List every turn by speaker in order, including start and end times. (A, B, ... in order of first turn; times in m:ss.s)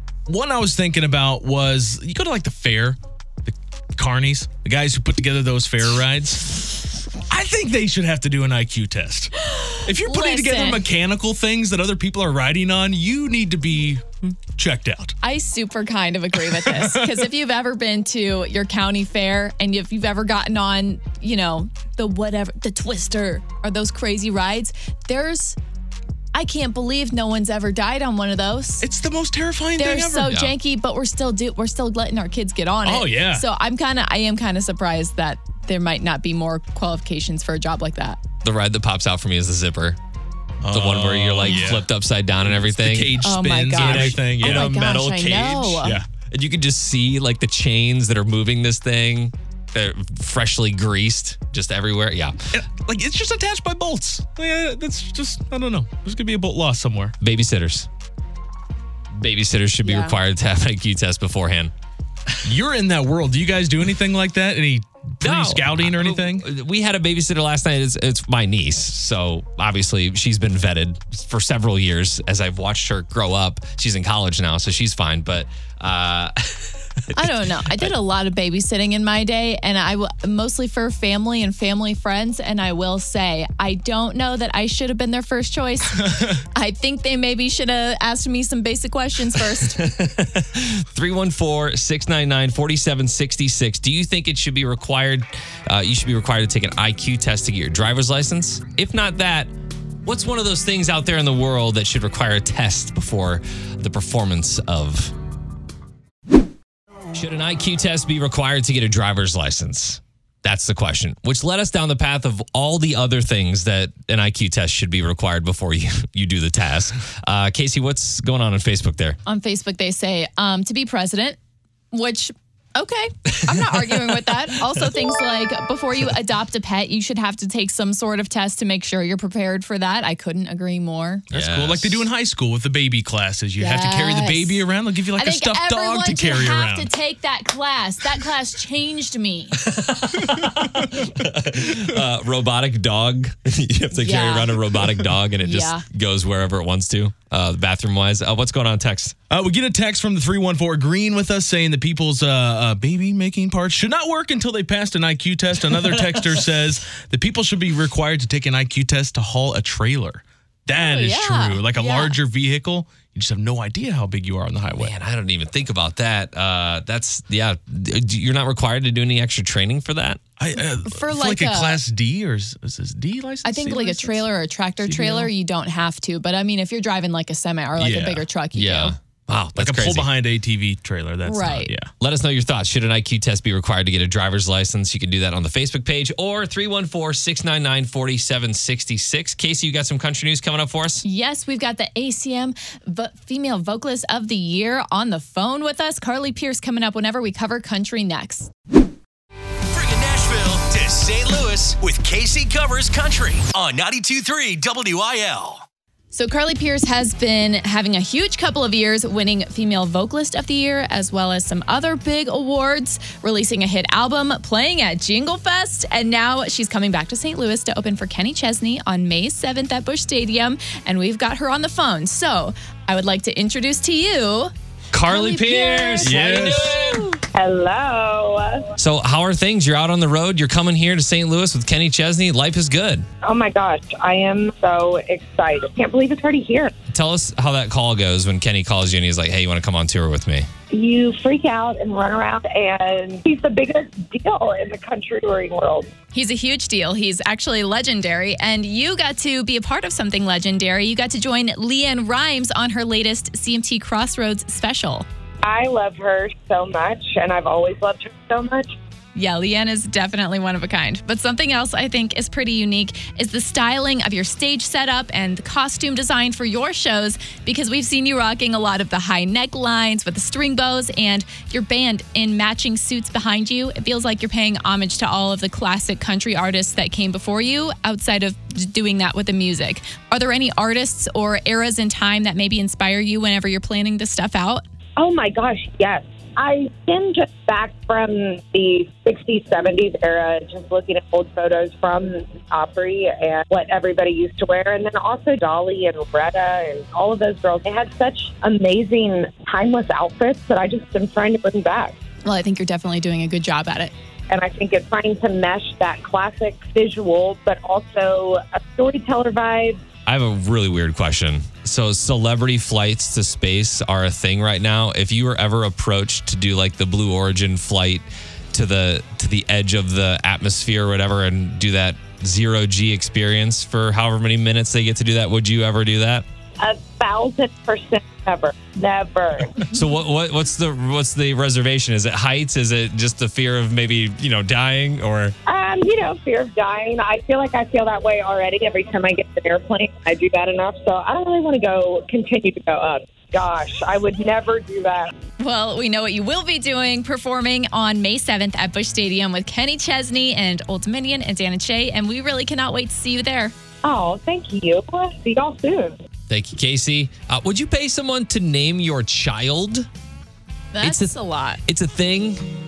0:00.3-0:06.7 A
0:07.3-0:09.3 A
0:09.4-0:10.8 B
0:09.8-0:15.2 A
0:15.2-0:25.6 B
0:16.5-0:17.3 A
0:26.3-0:28.9 B
0:28.8-0:30.4 A
0:29.8-0:38.2 B
0:30.2-0:30.5 C
0:32.8-0:33.5 A
0:38.4-0:40.0 C
0:40.6-0:41.9 A
0:40.7-0:52.5 C
0:42.5-0:45.0 A
0:43.2-0:46.0 B
0:45.8-0:46.0 A
0:52.5-0:57.2 A
0:57.2-0:57.9 C
0:59.1-1:01.7 C
0:59.8-1:00.2 B
1:02.4-1:06.5 A
1:05.2-1:18.0 C
1:17.1-1:29.8 B
1:26.0-1:26.4 A
1:29.6-1:39.5 C
1:40.0-1:45.2 C
1:47.1-1:59.2 C
1:59.3-2:01.4 B
2:01.9-2:11.2 B
2:03.4-2:04.9 C
2:11.3-2:12.1 C
2:11.3-2:16.9 A
2:13.6-2:19.6 B
2:19.5-2:29.2 C
2:24.0-2:24.6 B
2:25.4-2:25.8 B
2:29.3-2:44.9 A
2:35.6-2:36.5 C
2:40.7-2:42.2 B
2:44.8-2:50.2 C
2:50.4-2:54.3 A
2:50.8-2:51.8 B
2:53.4-2:59.0 B
2:54.8-2:55.3 A
2:57.8-2:58.2 A
2:58.5-3:00.1 C
2:59.6-3:01.9 A
3:01.3-3:01.7 B
3:02.0-3:11.0 C
3:11.0-3:18.5 B
3:19.7-3:25.6 D
3:26.1-3:44.5 B
3:44.9-3:47.1 C
3:45.1-3:47.2 B
3:46.0-3:46.8 A
3:47.3-3:48.7 E
3:48.8-3:53.1 C
3:53.2-3:56.7 E
3:56.9-4:00.5 C
4:00.7-4:05.9 E
4:06.1-4:15.1 B
4:15.4-4:18.7 E
4:19.2-4:44.6 B
4:45.0-5:02.0 E
5:02.2-5:03.9 B
5:04.3-5:09.8 E
5:10.1-5:26.2 C
5:26.6-5:29.7 E
5:29.7-5:35.4 C
5:35.5-5:45.1 E
5:45.4-5:53.5 B
5:53.8-5:56.0 E
5:56.3-5:59.9 C
6:00.7-6:01.6 B
6:00.8-6:02.5 C